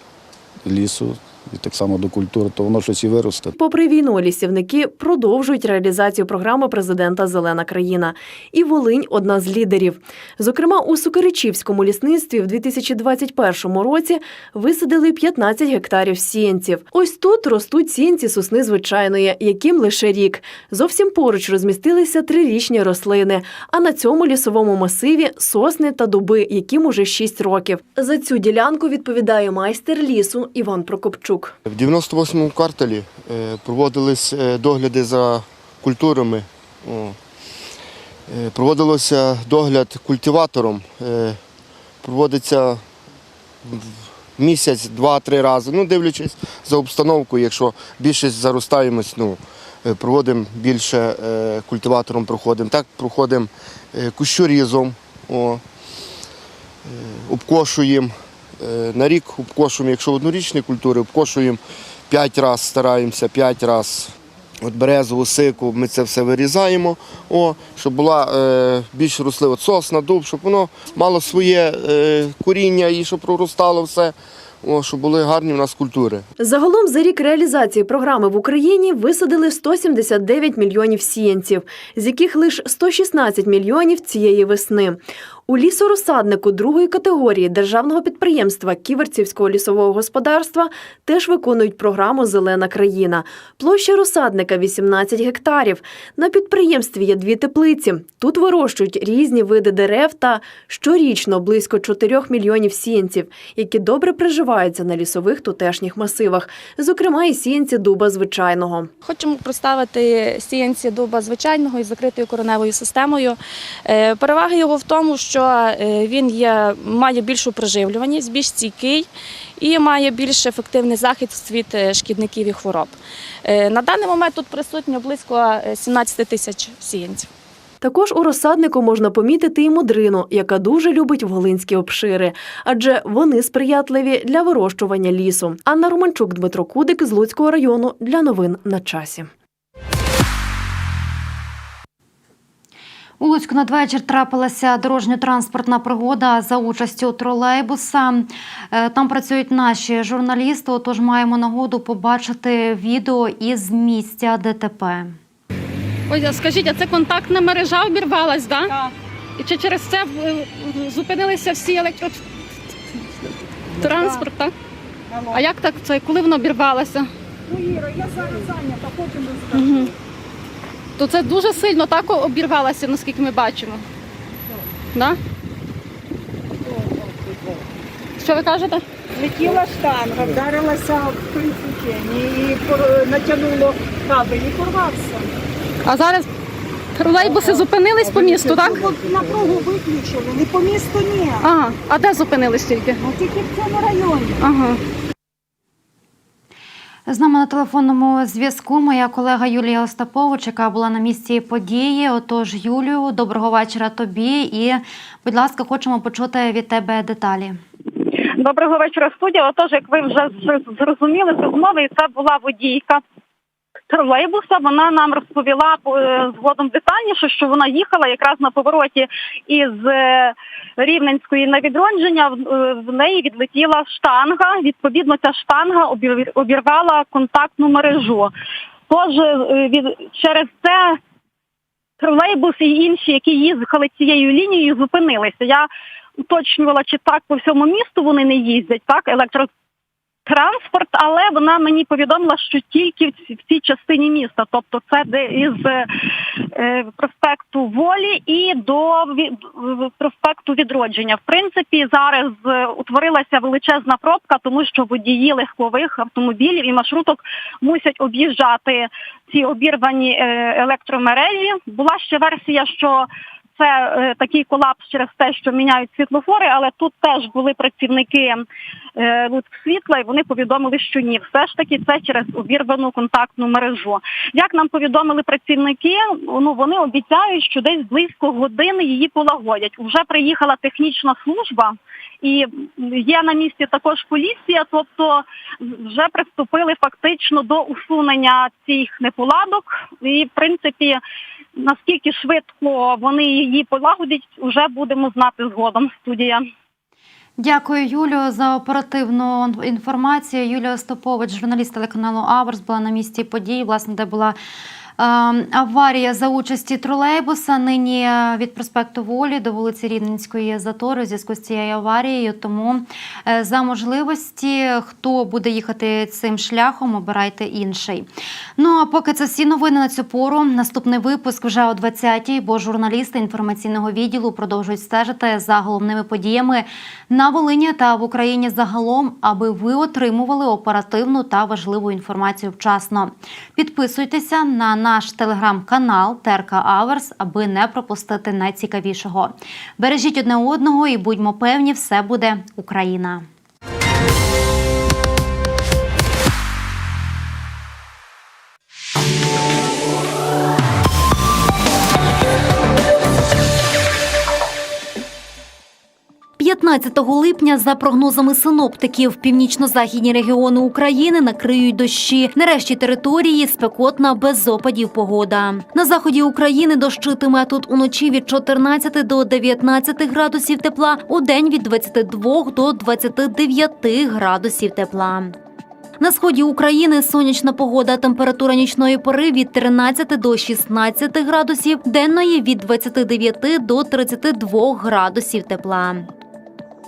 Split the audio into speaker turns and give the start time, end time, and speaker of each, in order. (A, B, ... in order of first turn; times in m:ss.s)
0:00.6-0:03.5 A
0:03.5-0:31.5 B
0:31.7-0:37.2 C
0:38.3-0:41.4 C
0:42.0-0:42.8 C
0:43.6-0:55.6 C
0:56.9-1:16.2 C
1:16.4-1:48.9 B
1:49.0-1:53.4 D
1:53.9-2:07.3 D
2:07.8-2:19.3 B
2:23.2-2:35.2 E
2:36.1-2:38.7 F
2:39.4-2:42.2 F
2:43.8-2:44.5 F
2:45.3-2:47.1 F
2:47.5-2:49.7 G
2:49.6-2:49.8 F
2:51.0-2:53.8 F
2:58.2-2:58.8 F
2:59.2-3:05.2 G
3:05.8-3:06.3 F
3:07.0-3:08.7 F
3:07.2-3:11.3 G
3:11.4-3:13.1 F
3:13.1-3:14.4 G
3:14.4-3:14.8 F
3:17.1-3:27.6 E
3:28.4-3:33.0 H
3:33.9-3:48.3 H
3:48.9-3:51.0 H
3:52.0-3:55.7 H
3:56.3-3:59.5 H
4:00.2-4:05.9 H
4:06.5-4:23.1 H
4:23.6-4:28.4 H
4:29.0-4:45.2 H
4:45.8-4:51.0 H
4:51.6-4:56.4 H
4:57.4-5:04.4 E
5:05.0-5:43.2 E
5:56.4-6:15.3 E
6:16.0-6:26.1 E